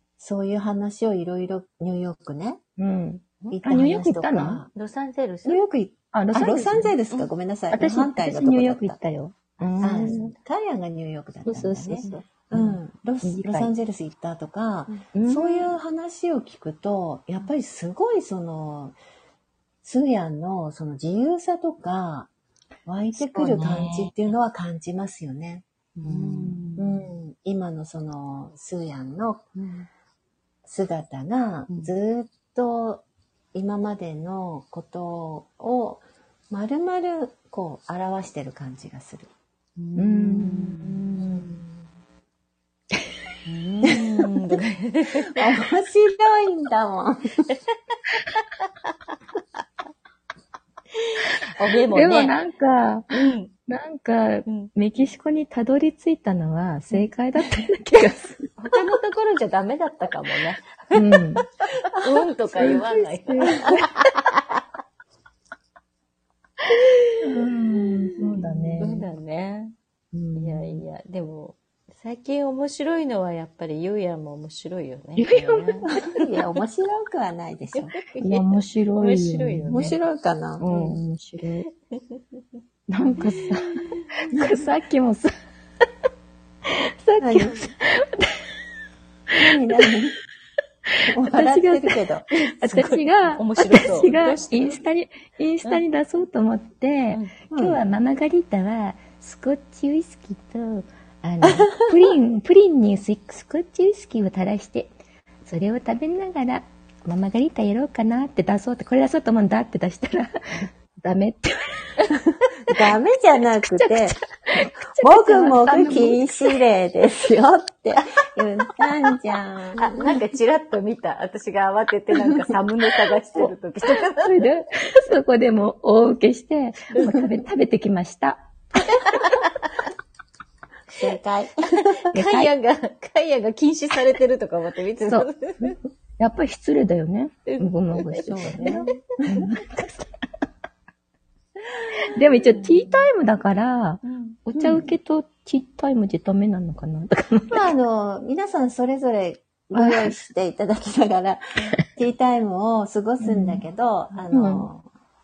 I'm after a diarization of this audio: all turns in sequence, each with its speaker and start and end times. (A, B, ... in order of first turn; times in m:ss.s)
0:00.2-0:02.6 A
0:02.8-0:04.6 B
0:03.5-0:04.7 A
0:04.7-0:05.6 C
0:05.4-0:09.0 A
0:06.1-0:06.9 B
0:07.7-0:10.3 B
0:09.7-0:10.3 C
0:09.8-0:19.0 A
0:11.5-0:13.7 B
0:15.1-0:15.7 B
0:19.8-0:22.3 A
0:22.9-0:25.6 A
0:23.2-0:24.1 B
0:26.0-0:26.9 C
0:26.0-0:26.8 B
0:26.8-0:29.4 A
0:29.6-0:29.9 C
0:30.6-0:39.3 A
0:39.8-0:41.2 C
0:40.0-0:41.3 B
0:41.1-0:41.8 A
0:43.5-0:45.5 C
0:45.3-0:47.5 A
0:51.0-0:52.4 C
0:51.9-0:58.5 B
0:53.1-0:53.5 C
0:58.6-1:01.2 C
1:00.9-1:01.4 B
1:01.8-1:04.6 C
1:02.6-1:03.9 B
1:07.2-1:09.1 B
1:07.7-1:08.1 A
1:08.2-1:09.8 C
1:10.1-1:10.8 B
1:10.4-1:16.2 C
1:15.2-1:15.9 B
1:15.9-1:18.0 A
1:18.0-1:20.0 C
1:18.2-1:20.0 B
1:19.7-1:21.0 A
1:20.6-1:21.7 B
1:21.9-1:22.2 C
1:22.9-1:25.3 B
1:23.2-1:24.1 C
1:26.7-1:28.4 B
1:27.2-1:27.6 A
1:29.3-1:29.9 B
1:29.3-1:30.2 A
1:30.9-1:32.0 B
1:31.1-1:32.3 A
1:32.4-1:34.8 C
1:32.6-1:44.9 B
1:37.5-1:37.8 A
1:41.4-1:41.9 A
1:45.4-1:52.2 B
1:52.7-2:00.0 A
1:53.6-1:56.6 B
1:59.8-2:04.4 C
2:03.4-2:09.2 B
2:08.9-2:09.7 C
2:10.9-2:12.1 A
2:11.8-2:15.8 C
2:12.1-2:12.5 B
2:16.2-2:20.1 B
2:17.5-2:19.0 C
2:18.2-2:19.5 A
2:22.0-2:27.7 B
2:22.5-2:23.0 A
2:24.0-2:24.4 C
2:24.6-2:24.9 A
2:27.5-2:34.9 A
2:29.7-2:30.2 B
2:33.2-2:33.6 B
2:34.3-2:34.7 B